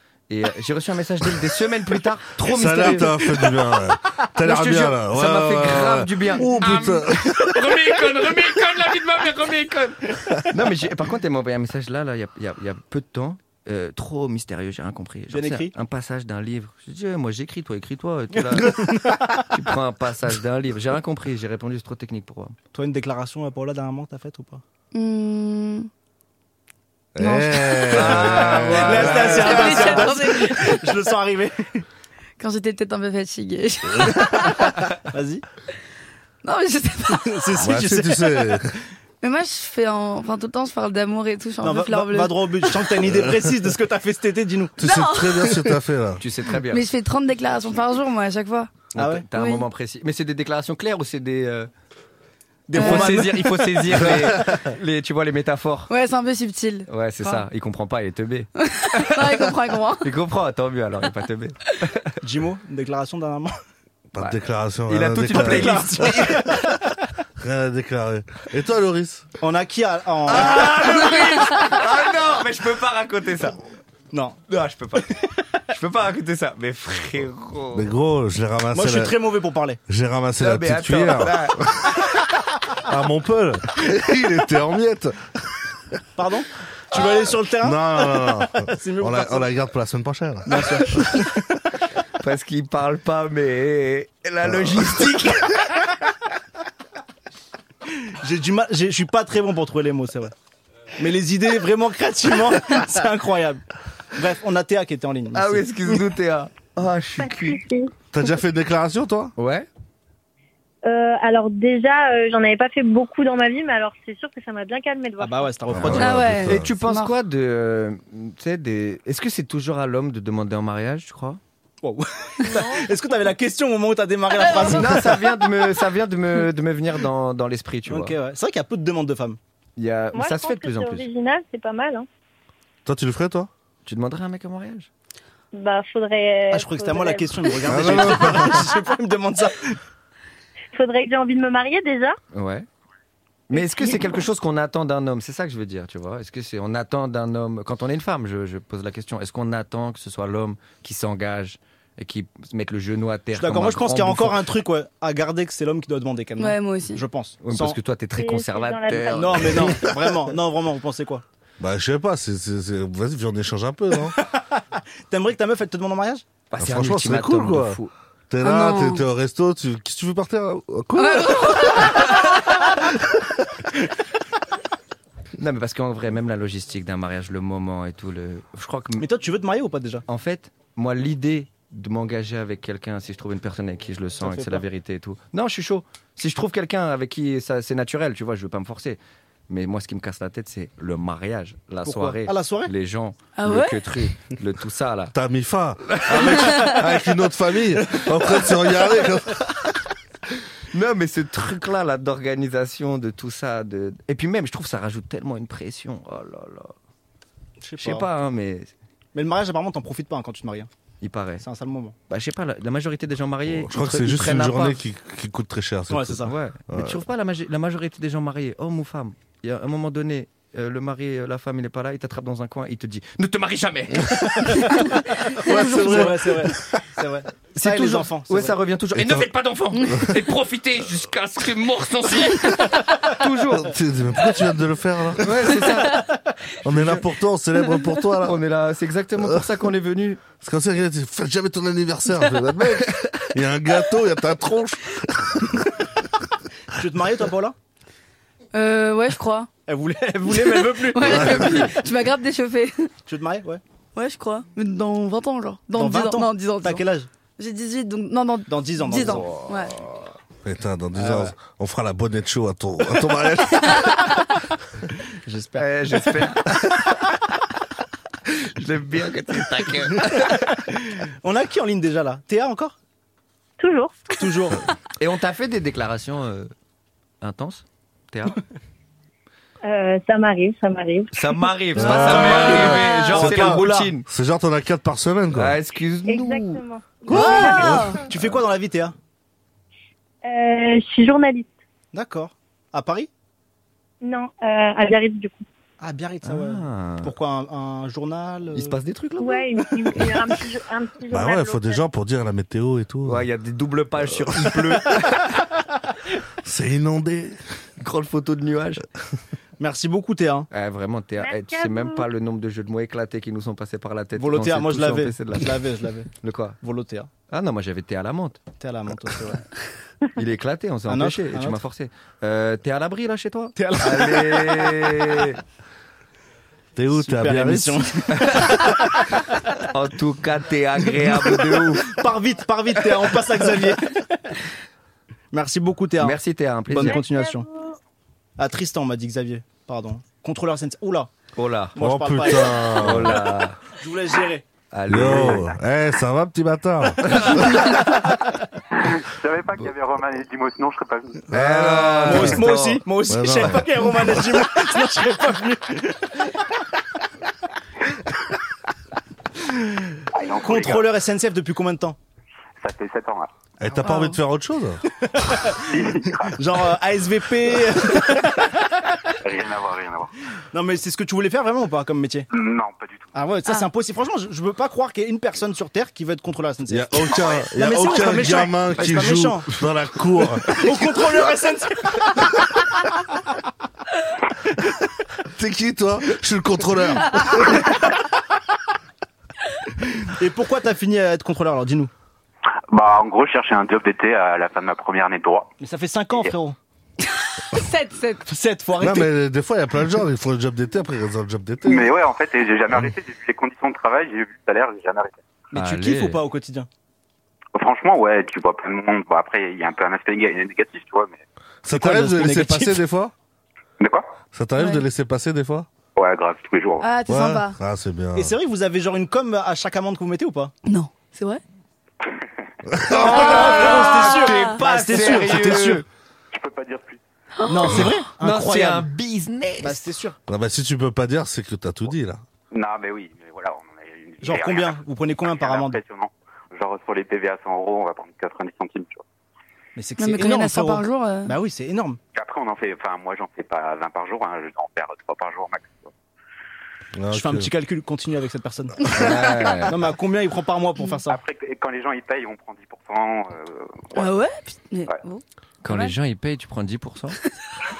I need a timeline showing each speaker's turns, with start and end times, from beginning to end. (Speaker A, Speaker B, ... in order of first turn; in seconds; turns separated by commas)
Speaker A: 0.3-3.5, Speaker B: 2.5-7.7, Speaker A: 4.4-22.5, Speaker C: 15.3-15.7, Speaker C: 18.3-19.4, Speaker C: 22.7-24.6, Speaker D: 24.9-25.9, Speaker B: 27.1-29.3, Speaker D: 27.2-28.1, Speaker A: 27.9-30.2, Speaker C: 28.2-31.9, Speaker D: 29.1-30.9, Speaker D: 32.4-34.8, Speaker C: 35.1-35.4, Speaker D: 36.4-37.6, Speaker C: 37.2-38.6, Speaker B: 37.6-38.7, Speaker D: 39.2-42.8, Speaker C: 41.6-44.8, Speaker B: 43.0-43.5, Speaker B: 44.8-46.2, Speaker D: 44.8-45.5, Speaker A: 46.2-46.8, Speaker D: 46.7-48.7, Speaker A: 48.9-51.7, Speaker C: 48.9-49.2, Speaker D: 49.3-49.6, Speaker C: 52.7-54.3, Speaker A: 52.7-55.9, Speaker D: 52.8-53.2, Speaker B: 54.1-54.6, Speaker D: 55.9-57.4, Speaker A: 56.9-59.5, Speaker D: 58.6-60.1, Speaker A: 60.0-62.1, Speaker C: 62.2-63.5, Speaker B: 64.1-66.1, Speaker A: 64.2-66.8, Speaker C: 65.3-66.7, Speaker B: 67.4-69.3, Speaker C: 69.4-71.1, Speaker A: 70.3-73.6, Speaker C: 74.1-74.4, Speaker A: 74.5-75.1, Speaker A: 75.7-77.9, Speaker B: 77.7-79.2, Speaker C: 78.7-79.8, Speaker B: 79.9-82.0, Speaker A: 80.4-82.0, Speaker B: 82.8-85.6, Speaker C: 86.2-89.5, Speaker B: 87.6-91.3, Speaker C: 90.5-91.4, Speaker A: 92.2-95.9, Speaker B: 94.5-95.0, Speaker C: 98.1-100.3, Speaker C: 101.0-103.6, Speaker C: 104.1-106.0, Speaker A: 105.3-107.6, Speaker E: 107.2-107.9, Speaker B: 108.1-109.3, Speaker A: 109.4-109.7, Speaker E: 110.8-115.5, Speaker C: 115.2-116.3, Speaker B: 115.7-116.7, Speaker A: 115.7-121.4, Speaker D: 115.9-117.1, Speaker C: 121.8-125.2, Speaker E: 122.5-122.8, Speaker D: 124.4-125.0, Speaker A: 124.6-128.2, Speaker C: 127.8-129.4, Speaker A: 129.8-131.1, Speaker E: 130.1-132.1, Speaker B: 132.8-133.5, Speaker A: 133.8-134.9, Speaker E: 135.5-137.3, Speaker C: 136.5-139.8, Speaker B: 137.7-138.7, Speaker E: 140.7-142.2, Speaker A: 142.3-142.7, Speaker A: 143.5-154.4, Speaker E: 143.5-144.0, Speaker C: 153.3-157.8, Speaker D: 156.4-157.0, Speaker A: 157.4-159.8, Speaker E: 158.1-159.9, Speaker C: 159.1-161.2, Speaker B: 161.6-164.1, Speaker C: 164.2-166.2, Speaker A: 166.5-167.9, Speaker B: 166.6-167.8, Speaker B: 168.3-172.1, Speaker D: 168.4-169.1, Speaker D: 170.9-172.3, Speaker A: 175.4-179.1, Speaker C: 179.0-180.0, Speaker A: 180.1-195.1, Speaker C: 184.2-184.6, Speaker C: 191.8-192.7, Speaker D: 193.3-193.8, Speaker B: 195.1-199.4, Speaker A: 195.9-196.8, Speaker D: 196.4-196.7, Speaker A: 200.7-206.7, Speaker C: 207.6-208.1, Speaker A: 207.8-208.7, Speaker C: 209.1-210.7, Speaker A: 211.0-211.4, Speaker C: 211.4-211.9, Speaker A: 212.1-214.8, Speaker B: 213.5-217.0, Speaker C: 215.9-216.3, Speaker A: 216.2-225.3, Speaker C: 224.4-228.6, Speaker B: 225.4-226.4, Speaker A: 225.9-226.6, Speaker A: 227.5-233.7, Speaker B: 228.9-229.3, Speaker D: 229.8-230.1, Speaker B: 229.8-230.2, Speaker B: 233.5-235.7, Speaker A: 235.2-236.1, Speaker A: 236.6-237.0, Speaker B: 236.6-238.4, Speaker A: 238.2-240.2, Speaker B: 239.2-239.4, Speaker B: 240.4-245.7, Speaker C: 246.7-247.5, Speaker D: 248.5-249.5, Speaker C: 249.7-251.8, Speaker D: 250.3-252.9, Speaker A: 251.1-251.6, Speaker C: 253.1-253.6, Speaker D: 253.9-256.8, Speaker C: 255.7-257.1, Speaker D: 257.4-259.8, Speaker C: 258.5-259.5, Speaker B: 260.4-264.2, Speaker C: 260.9-261.3, Speaker C: 265.2-266.2, Speaker A: 265.6-267.1, Speaker A: 268.2-270.6, Speaker C: 270.6-272.8, Speaker E: 273.6-274.3, Speaker C: 274.2-274.6, Speaker A: 275.0-276.5, Speaker A: 277.2-278.4, Speaker E: 279.6-281.1, Speaker A: 281.1-284.0, Speaker B: 281.7-285.6, Speaker C: 281.8-283.9, Speaker D: 282.6-283.1, Speaker A: 285.3-286.6, Speaker E: 286.1-288.0, Speaker D: 287.1-288.0, Speaker C: 287.1-288.9, Speaker E: 290.2-291.5, Speaker C: 291.9-293.1, Speaker E: 294.0-295.4, Speaker C: 295.8-298.7, Speaker A: 296.2-297.1, Speaker A: 298.5-300.0, Speaker E: 299.2-301.8, Speaker B: 301.1-303.2, Speaker A: 303.1-305.4, Speaker B: 304.1-304.5, Speaker B: 306.4-307.4, Speaker A: 307.8-308.8, Speaker C: 309.6-310.5, Speaker A: 310.5-315.6, Speaker E: 311.2-312.0, Speaker C: 314.1-316.1, Speaker A: 316.1-316.6, Speaker C: 316.6-317.1, Speaker A: 317.3-318.4, Speaker C: 318.6-319.4, Speaker A: 320.1-325.4, Speaker C: 320.9-321.6, Speaker C: 323.6-325.0, Speaker B: 326.8-327.8, Speaker C: 326.9-329.1, Speaker A: 328.2-329.0, Speaker A: 329.7-331.9, Speaker C: 331.0-334.2, Speaker C: 335.3-336.2, Speaker A: 336.0-337.0, Speaker C: 336.7-337.4, Speaker E: 336.8-337.7, Speaker C: 338.4-341.1, Speaker A: 341.3-341.8, Speaker C: 341.7-343.2, Speaker B: 341.8-343.2, Speaker A: 342.8-343.6, Speaker C: 343.7-344.4, Speaker A: 344.7-345.5, Speaker B: 344.9-347.7, Speaker C: 345.0-345.4, Speaker C: 347.6-348.1, Speaker F: 348.7-351.3, Speaker A: 351.3-352.8, Speaker C: 351.3-356.3, Speaker B: 351.4-352.5, Speaker B: 353.1-354.2, Speaker C: 359.4-362.0, Speaker F: 360.1-360.9, Speaker F: 362.6-363.3, Speaker B: 363.6-364.8, Speaker D: 363.8-364.2, Speaker C: 365.0-368.8, Speaker F: 365.6-366.4, Speaker F: 369.2-370.1, Speaker C: 370.5-372.3, Speaker F: 372.3-373.1, Speaker C: 373.1-379.5, Speaker B: 376.7-380.9, Speaker C: 380.5-382.5, Speaker B: 385.3-387.8, Speaker C: 390.0-391.9, Speaker F: 392.7-395.5, Speaker C: 395.6-396.6, Speaker D: 397.1-398.2, Speaker C: 398.2-399.1, Speaker B: 398.8-401.9, Speaker F: 401.6-405.2, Speaker C: 405.5-406.7, Speaker A: 405.5-406.2, Speaker F: 407.6-411.2, Speaker B: 411.6-413.1, Speaker C: 411.7-412.8, Speaker F: 413.8-414.1, Speaker B: 414.3-415.7, Speaker D: 414.6-414.8, Speaker F: 415.9-416.9, Speaker D: 416.8-417.6, Speaker B: 417.1-418.3, Speaker C: 418.1-420.5, Speaker D: 420.6-421.4, Speaker B: 422.6-423.2, Speaker C: 422.9-425.8, Speaker A: 422.9-425.8, Speaker D: 423.2-424.5, Speaker F: 426.3-427.0, Speaker D: 427.4-428.0, Speaker C: 427.5-428.9, Speaker A: 427.7-429.8, Speaker C: 429.6-430.2, Speaker B: 430.3-432.2, Speaker F: 432.5-439.0, Speaker C: 434.2-435.8, Speaker C: 439.8-442.0, Speaker D: 440.0-441.4, Speaker F: 442.1-445.9, Speaker B: 446.9-447.5, Speaker C: 447.1-451.2, Speaker A: 448.9-449.7, Speaker F: 451.1-454.1, Speaker D: 453.9-455.9, Speaker A: 455.6-457.2